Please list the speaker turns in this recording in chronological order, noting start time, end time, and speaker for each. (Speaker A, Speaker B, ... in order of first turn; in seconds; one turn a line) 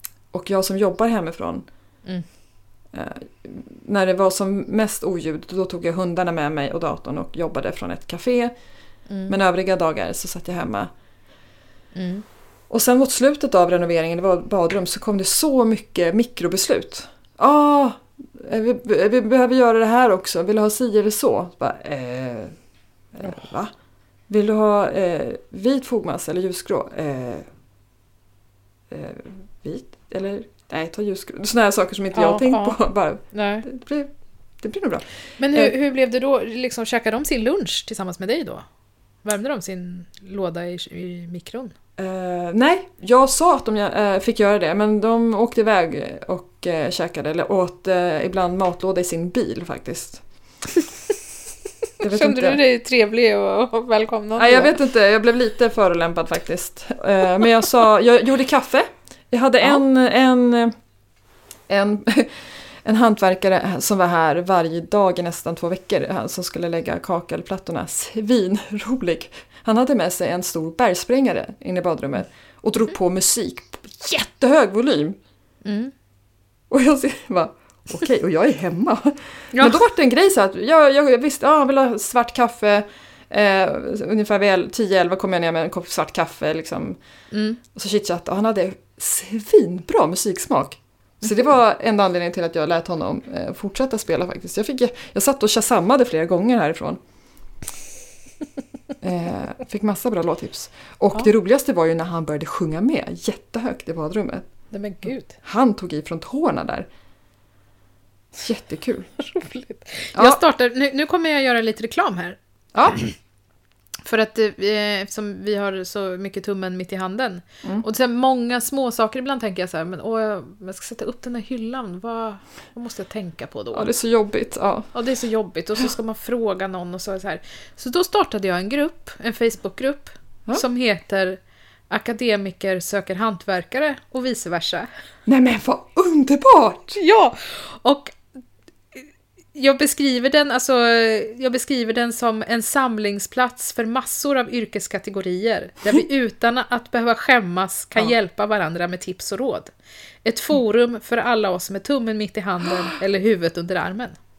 Speaker A: 0.3-1.7
Speaker A: 2.9-8.6
Speaker B: 9.1-9.4
Speaker A: 9.3-10.9
Speaker B: 11.9-12.2
Speaker A: 12.7-22.5
Speaker A: 23.1-23.7
Speaker A: 24.3-27.5
Speaker A: 28.9-35.7
Speaker B: 32.1-32.8
Speaker B: 33.3-33.7
Speaker B: 35.4-38.6
Speaker B: 39.2-41.8
Speaker A: 42.0-50.2
Speaker A: 52.0-52.6
Speaker B: 52.0-54.8
Speaker A: 54.4-60.7
Speaker A: 61.7-75.2
Speaker B: 75.6-75.9
Speaker A: 76.7-87.0
Speaker B: 79.5-79.8
Speaker B: 87.3-87.6
Speaker A: 87.7-97.0
Speaker A: 99.0-104.5
Speaker B: 104.7-105.3
Speaker A: 105.4-106.9
Speaker A: 108.3-109.1
Speaker B: 109.2-112.4
Speaker A: 110.2-110.4
Speaker A: 112.7-113.0
Speaker B: 114.0-123.9
Speaker A: 123.7-124.9
Speaker B: 124.9-134.9
Speaker A: 135.3-137.0
Speaker B: 137.0-138.2
Speaker B: 138.9-149.7
Speaker B: 150.2-154.2